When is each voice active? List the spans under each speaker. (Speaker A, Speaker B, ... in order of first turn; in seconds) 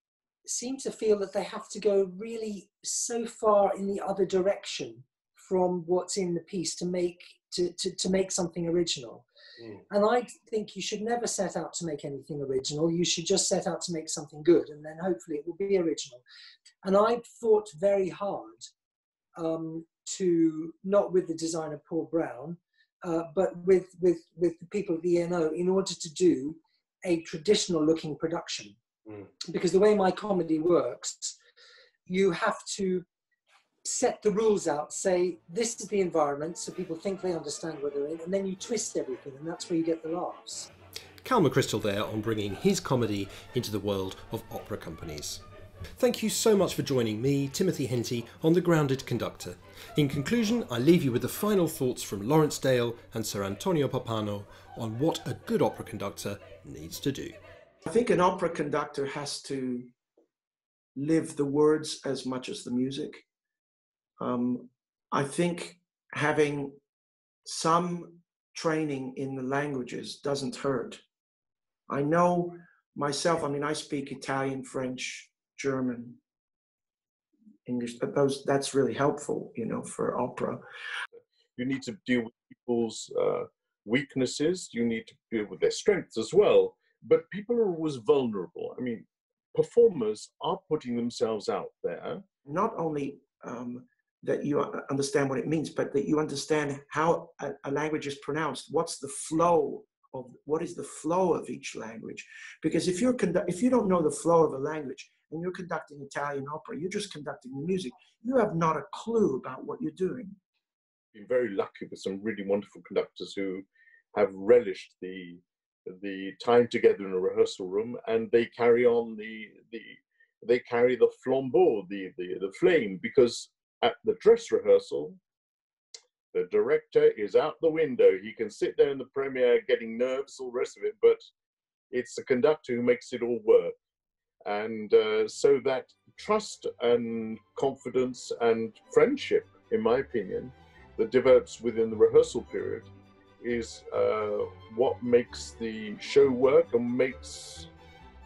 Speaker A: 0.5-9.2, 9.9-16.2, 16.8-18.7, 19.4-28.8, 29.5-31.4, 32.1-33.0, 33.8-40.7
Speaker B: 41.2-45.4, 46.0-57.4
Speaker C: 57.8-59.9, 61.0-63.2, 64.2-66.8, 67.4-71.0, 71.9-76.2, 77.7-80.6, 92.5-110.4
Speaker D: 81.6-92.2, 111.1-125.2, 126.3-131.2, 131.9-133.7, 134.4-142.9, 143.4-147.7